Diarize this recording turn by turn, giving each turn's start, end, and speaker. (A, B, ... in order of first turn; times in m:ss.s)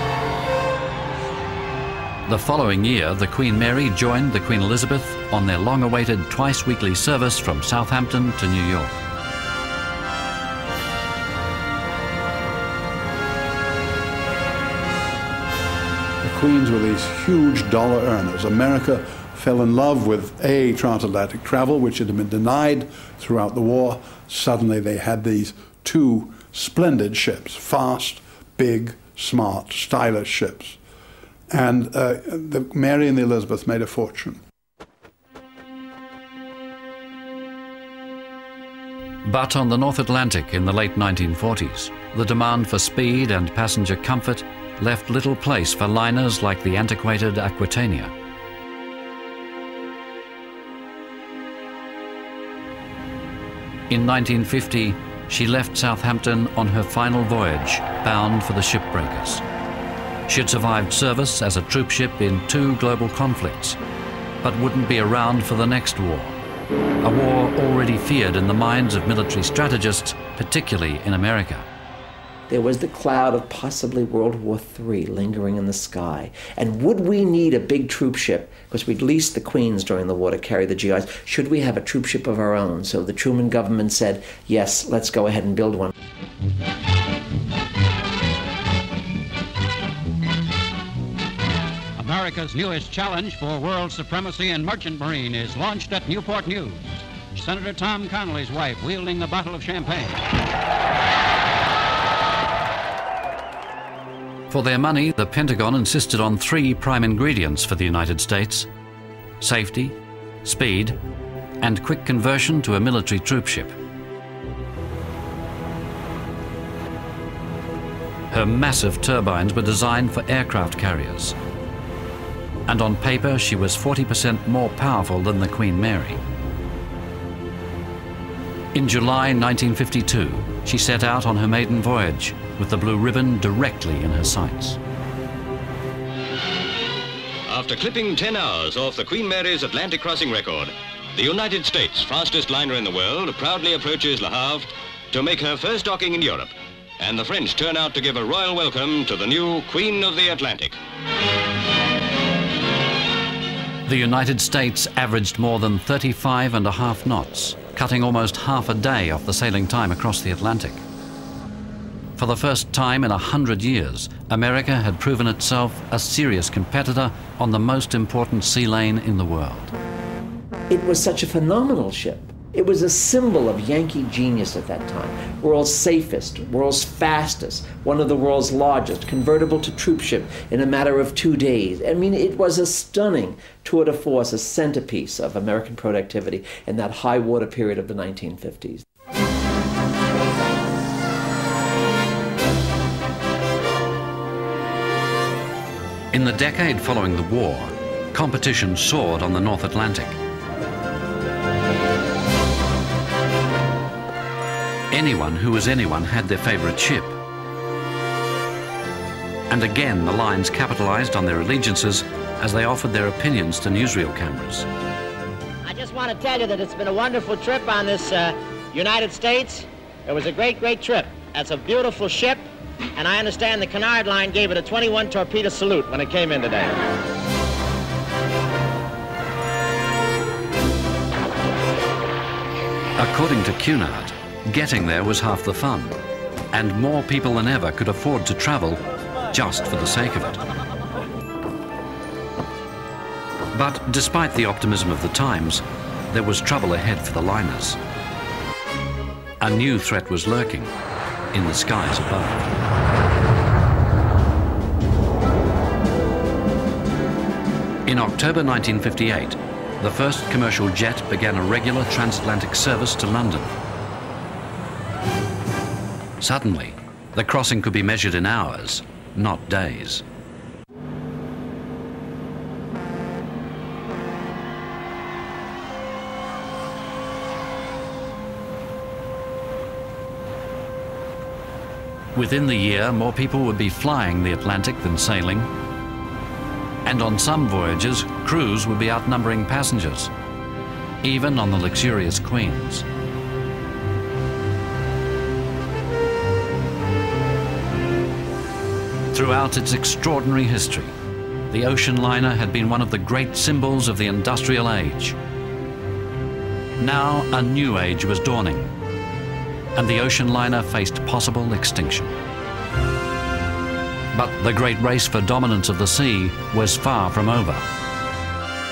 0:02.3-0:09.0 A
0:16.2-0:30.8 B
0:31.5-0:34.4 B
0:39.2-0:48.1 A
0:53.9-0:59.4 A
1:00.3-1:03.8 A
1:04.4-1:06.4 A
1:07.0-1:11.7 A
1:12.5-1:25.9 C
1:32.1-1:36.8 D
1:37.4-1:40.2 D
1:44.5-1:48.7 A
1:49.4-1:51.0 A
1:51.6-1:53.7 A
1:58.3-2:01.4 A
2:02.7-2:06.2 A
2:08.7-2:14.8 A
2:17.5-2:30.8 E
2:33.9-2:40.8 A
2:42.2-2:49.7 A
2:50.7-3:08.8 C
3:16.1-3:20.2 A
3:24.9-3:27.2 A
3:29.5-3:34.7 A
3:35.7-3:46.8 F
3:53.0-3:56.0 A
3:56.5-4:00.4 A
4:03.5-4:07.8 A
4:09.4-4:10.7 A
4:11.3-4:12.4 A
4:17.9-4:23.5 A
4:26.2-4:30.0 A
4:42.2-4:45.5 A
4:46.8-4:50.1 A
4:51.0-4:52.9 A
4:59.1-5:01.0 A
5:01.5-5:05.2 A
5:06.8-5:08.7 A
5:09.8-5:12.2 A
5:14.1-5:17.7 A